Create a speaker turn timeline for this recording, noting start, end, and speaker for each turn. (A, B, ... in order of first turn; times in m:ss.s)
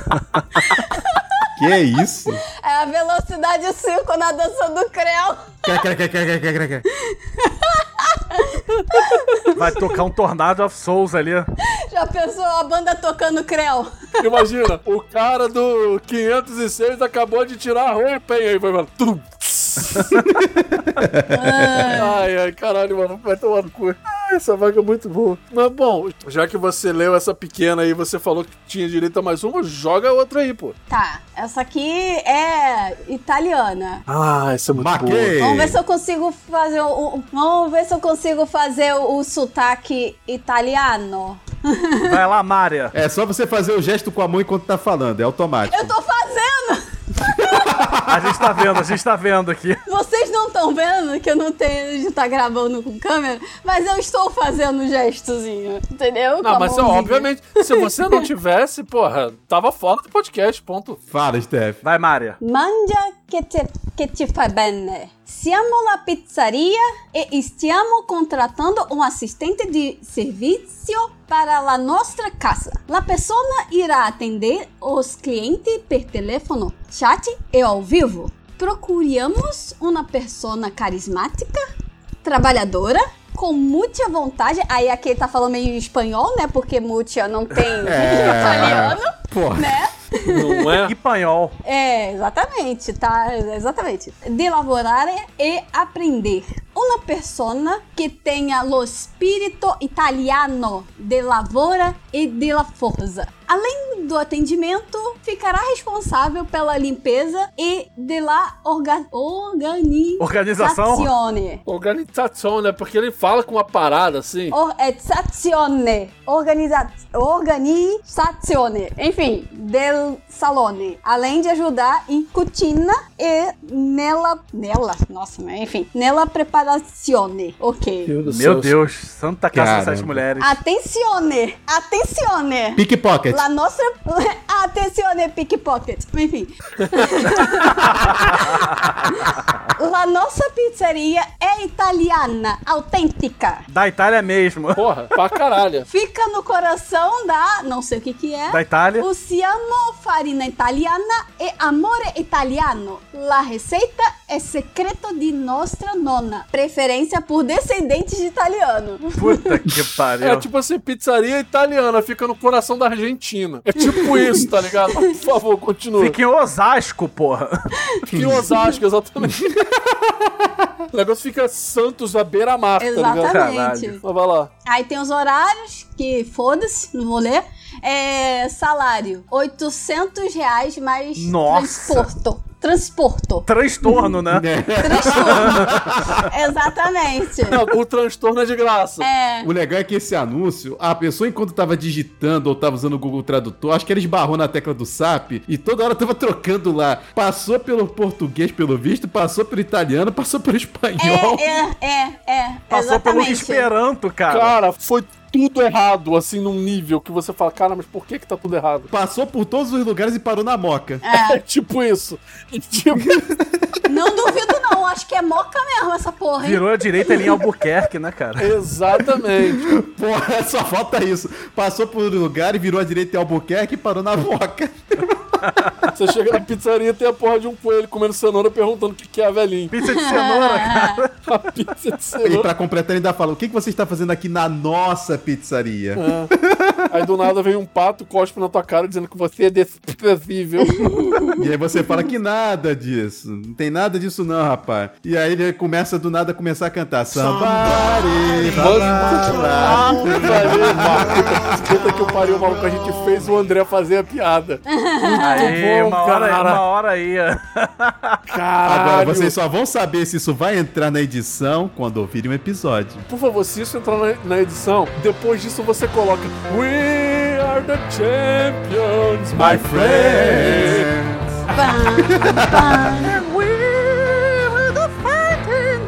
0:00.6-0:01.5 A
0:01.6-0:02.4 B
0:02.6-0:05.8 A
0:05.6-0:06.9 B
0:07.0-0:09.6 A
0:09.5-0:11.5 C
0:11.9-0:14.4 A
0:14.2-0:20.2 D
0:20.2-0:21.9 B
0:21.3-0:22.2 A
0:21.9-0:30.8 D
0:30.9-0:34.0 A
0:34.1-0:35.4 D
0:34.7-0:35.8 B
0:35.4-0:42.1 A
0:42.0-0:42.9 C
0:42.9-0:45.9 B
0:45.7-0:47.7 A
0:47.3-0:48.8 B
0:48.1-0:49.8 C
0:49.9-0:57.8 A
0:56.4-1:01.0 D
1:01.1-1:01.8 B
1:01.8-1:02.4 C
1:02.4-1:21.6 A
1:22.2-1:30.8 A
1:27.8-1:29.8 B
1:30.2-1:30.9 D
1:30.9-1:31.6 C
1:31.6-1:51.6 A
1:50.2-1:51.1 C
1:51.7-1:54.6 D
1:54.5-2:08.1 A
2:08.1-2:08.8 D
2:08.2-2:10.6 C
2:09.5-2:10.2 B
2:10.4-2:23.6 A
2:12.8-2:13.4 B
2:23.7-2:24.9 C
2:24.8-2:25.9 D
2:25.9-2:39.4 A
2:28.5-2:29.1 C
2:39.2-2:40.5 C
2:40.2-2:46.2 D
2:46.0-2:47.7 C
2:48.1-2:48.5 B
2:48.1-2:49.5 D
2:49.2-2:50.8 B
2:50.9-2:53.4 D
2:52.8-2:54.0 A
2:53.2-2:54.0 C
2:54.0-2:54.5 D
2:54.6-3:04.1 A
3:01.2-3:02.1 C
3:03.5-3:04.5 C
3:04.3-3:06.2 B
3:04.8-3:05.7 A
3:05.1-3:06.2 C
3:06.2-3:07.6 A
3:07.5-3:09.1 D
3:09.0-3:09.5 A
3:09.4-3:21.5 B
3:21.0-3:23.7 A
3:22.7-3:24.5 C
3:24.3-3:28.9 D
3:28.9-3:31.0 B
3:31.0-3:31.4 A
3:31.1-3:33.2 D
3:33.0-3:33.4 B
3:33.9-3:37.1 A
3:36.4-3:38.6 C
3:38.4-3:39.6 D
3:39.3-3:45.9 B
3:45.4-3:45.7 C
3:45.9-3:49.7 D
3:49.7-3:51.2 C
3:49.8-3:51.0 A
3:51.3-3:52.5 D
3:52.2-3:57.1 B
3:56.0-3:56.3 D
3:56.9-4:01.1 D
4:00.9-4:01.4 A
4:01.4-4:12.3 B
4:08.5-4:16.6 D
4:09.6-4:11.2 C
4:14.7-4:15.5 A
4:15.2-4:18.2 C
4:18.3-4:19.4 D
4:18.6-4:23.1 B
4:23.1-4:30.9 D
4:29.4-4:31.4 B
4:29.8-4:30.8 C
4:31.5-4:33.1 A
4:32.0-4:32.9 B
4:33.2-4:35.6 C
4:33.9-4:35.8 D